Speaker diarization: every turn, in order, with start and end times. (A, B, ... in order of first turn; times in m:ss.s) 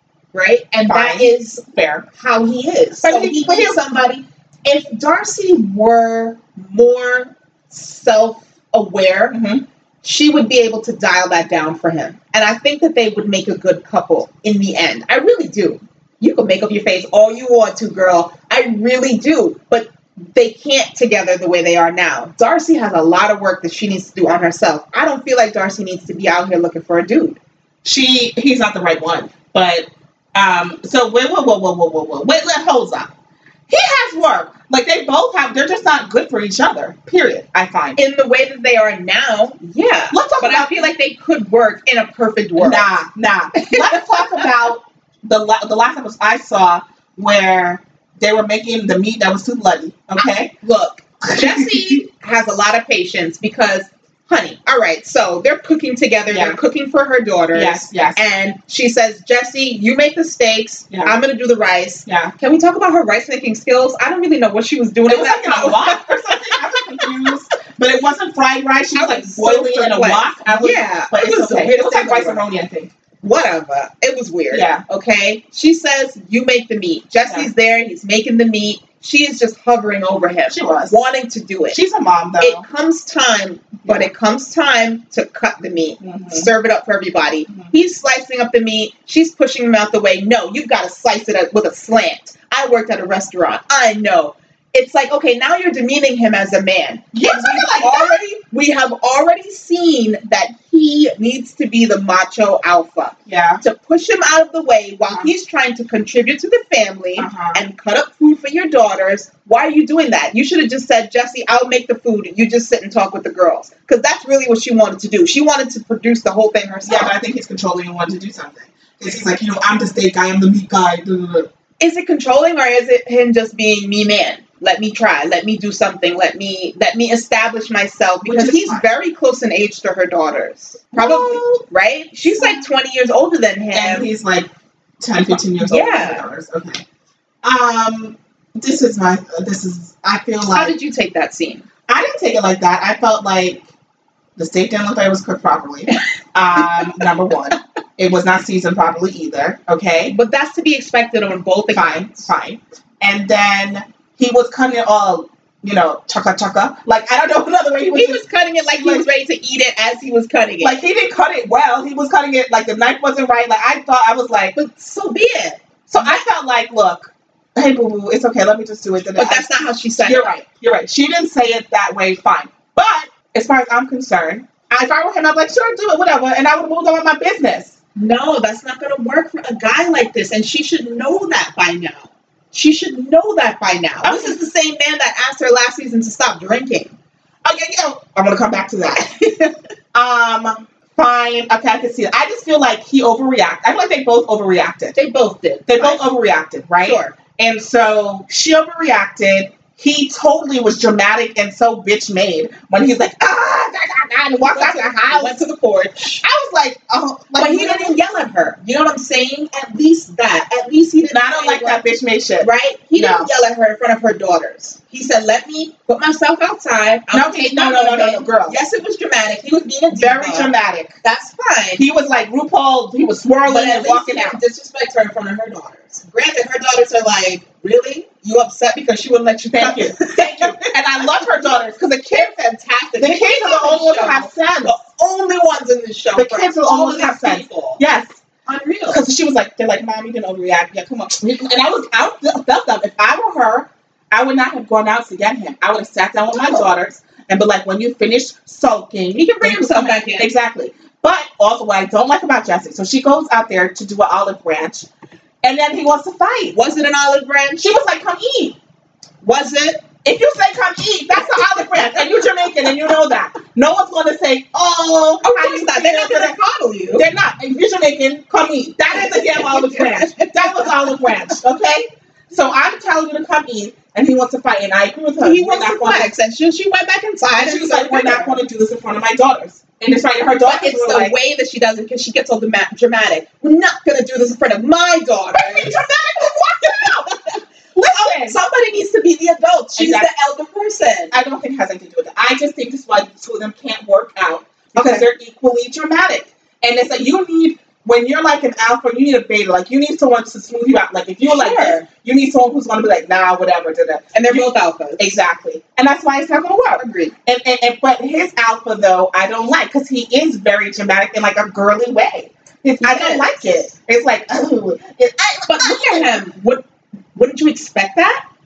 0:00.3-0:01.6 A
0:00.9-0:02.1 B
0:02.2-0:09.4 A
0:03.0-0:03.8 B
0:09.3-0:09.6 B
0:10.0-0:27.4 A
0:27.8-0:33.1 B
0:33.7-0:38.0 B
0:38.0-0:43.0 A
0:40.1-0:40.9 B
0:42.6-0:50.5 B
0:43.6-0:44.5 A
0:50.2-1:07.4 A
0:51.2-0:52.0 B
0:56.3-0:56.6 B
0:57.5-0:58.2 B
1:00.9-1:01.2 B
1:02.1-1:02.3 B
1:05.1-1:12.9 B
1:09.0-1:12.4 A
1:13.2-1:21.8 A
1:14.5-1:14.8 B
1:20.5-1:21.0 B
1:21.7-1:22.6 B
1:22.4-1:57.1 A
1:23.8-1:24.1 B
1:26.0-1:26.5 B
1:37.1-1:38.3 B
1:43.3-1:43.6 B
1:47.2-1:47.6 B
1:56.8-2:01.5 B
2:01.8-2:14.1 A
2:08.2-2:08.9 B
2:10.9-2:11.6 B
2:12.3-2:12.6 B
2:13.7-2:14.5 B
2:15.0-2:16.8 B
2:15.6-2:16.2 A
2:17.4-2:20.8 B
2:20.5-2:21.6 A
2:21.9-2:23.6 B
2:24.4-2:30.2 B
2:26.6-2:27.1 A
2:30.1-2:32.3 A
2:31.7-2:38.2 B
2:37.9-2:40.8 A
2:38.8-2:39.1 B
2:40.6-2:44.6 B
2:44.6-2:46.2 A
2:45.9-2:57.8 B
2:49.2-2:50.3 A
2:58.0-3:07.0 A
3:04.0-3:04.4 B
3:07.4-3:09.1 B
3:09.0-3:09.6 A
3:09.9-3:15.0 B
3:15.0-3:16.0 A
3:15.7-3:25.4 B
3:16.8-3:17.2 A
3:24.5-3:26.2 A
3:26.2-3:28.0 B
3:27.4-3:31.8 A
3:31.1-3:33.3 B
3:32.4-3:41.8 A
3:37.1-3:38.6 B
3:39.9-3:41.0 B
3:41.8-3:44.4 B
3:43.5-3:57.8 A
3:49.5-3:52.3 B
3:53.0-3:54.8 B
3:56.2-3:58.2 B
3:58.5-3:59.0 A
3:58.9-4:14.9 B
4:06.3-4:06.7 A
4:09.1-4:10.3 A
4:15.4-4:16.6 B
4:16.5-4:17.8 A
4:17.6-4:18.6 B
4:19.2-4:19.9 A
4:20.0-4:26.4 B
4:21.3-4:22.7 A
4:25.2-4:27.0 A
4:26.9-4:36.1 B
4:28.9-4:31.3 A
4:35.2-4:38.4 A
4:37.4-4:41.1 B
4:40.4-4:51.1 A
4:45.3-4:48.4 B
4:49.8-4:50.1 B
4:51.1-5:16.2 B
4:54.7-4:55.1 A
5:01.2-5:01.8 A
5:04.1-5:05.2 A
5:06.8-5:07.1 A
5:12.8-5:13.5 A
5:15.5-5:16.6 A
5:17.2-5:18.2 A